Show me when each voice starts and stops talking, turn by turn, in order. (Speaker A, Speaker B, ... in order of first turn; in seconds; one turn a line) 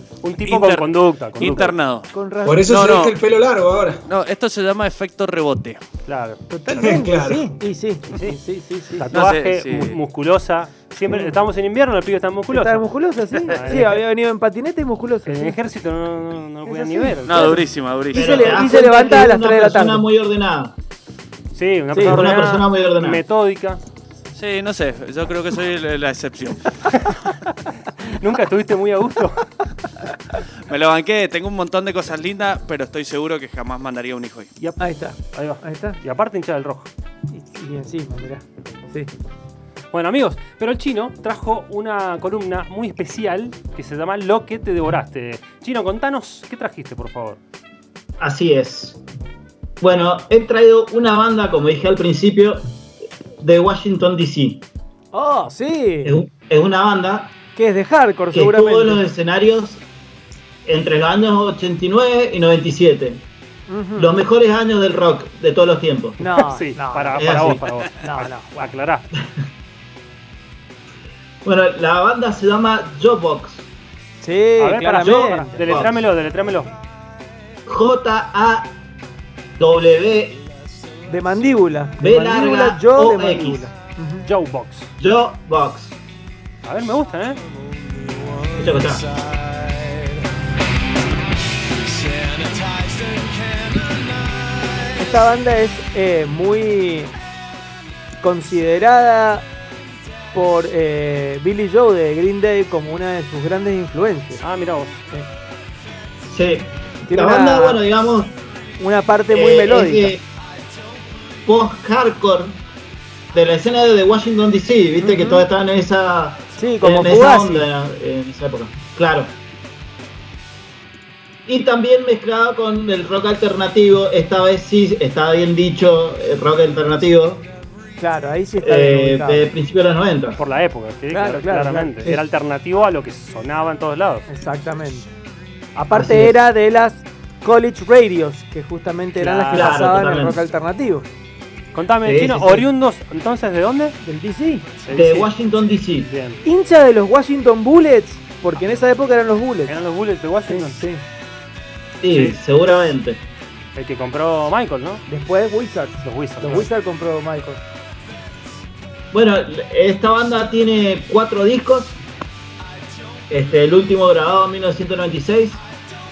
Speaker A: 0.2-1.7
Speaker B: 0.4-2.1
Speaker C: 2.1-2.6
Speaker D: 2.4-4.0
Speaker B: 2.7-3.2
Speaker B: 4.0-5.8
Speaker A: 6.0-6.4
Speaker C: 6.5-9.1
Speaker D: 6.7-7.5
Speaker A: 8.1-8.4
Speaker A: 8.9-12.8
Speaker B: 9.1-10.0
Speaker C: 12.5-15.6
Speaker A: 13.5-13.9
Speaker B: 13.5-13.8
Speaker A: 15.2-17.6
Speaker C: 16.6-20.0
Speaker B: 17.2-18.6
Speaker E: 18.1-20.8
Speaker A: 21.5-23.8
Speaker C: 21.9-22.2
Speaker E: 22.0-23.2
Speaker B: 24.3-26.7
Speaker A: 26.9-27.3
Speaker A: 28.0-29.4
Speaker B: 30.7-34.5
Speaker C: 34.8-36.0
Speaker A: 35.3-36.9
Speaker C: 37.3-39.1
Speaker A: 39.9-47.4
Speaker E: 48.2-49.0
Speaker E: 49.8-52.7
Speaker E: 53.4-54.6
Speaker C: 55.1-56.2
Speaker E: 56.0-57.3
Speaker C: 57.5-59.0
Speaker E: 58.3-59.8
Speaker E: 60.6-63.2
Speaker C: 63.7-64.2
Speaker E: 64.0-66.2
Speaker C: 66.2-68.7
Speaker A: 66.4-69.0
Speaker E: 67.2-67.6
Speaker E: 71.4-73.7
Speaker C: 74.2-75.6
Speaker A: 74.6-76.7
Speaker E: 75.0-76.0
Speaker E: 77.7-78.8
Speaker E: 79.6-80.4
Speaker C: 81.1-84.2
Speaker E: 82.0-83.7
Speaker A: 84.2-84.9
Speaker E: 85.0-86.0
Speaker A: 86.6-87.4
Speaker E: 88.6-89.0
Speaker B: 92.1-93.8
Speaker C: 95.0-97.1
Speaker C: 98.2-99.5
Speaker C: 100.3-104.4
Speaker A: 104.4-105.0
Speaker E: 106.3-108.4
Speaker C: 107.1-107.8
Speaker C: 108.8-110.1
Speaker E: 109.3-110.2
Speaker E: 111.4-112.6
Speaker E: 113.3-119.3
Speaker A: 115.0-115.4
Speaker C: 116.5-117.7
Speaker E: 121.5-127.5
Speaker C: 128.0-129.5
Speaker E: 128.6-130.4
Speaker A: 130.3-134.2
Speaker C: 131.1-132.2
Speaker C: 134.3-135.1
Speaker C: 135.8-141.1
Speaker E: 135.9-136.3
Speaker A: 139.2-139.8
Speaker E: 139.5-140.4
Speaker A: 141.7-144.0
Speaker E: 142.0-142.7
Speaker C: 144.0-144.7
Speaker A: 144.8-145.3
Speaker E: 144.9-146.1
Speaker A: 146.0-146.4
Speaker C: 146.4-149.8
Speaker A: 149.7-150.8
Speaker C: 150.5-151.0
Speaker E: 152.0-153.2
Speaker A: 153.8-155.0
Speaker C: 155.1-157.6
Speaker A: 156.0-156.7
Speaker E: 159.1-162.0
Speaker E: 163.3-165.6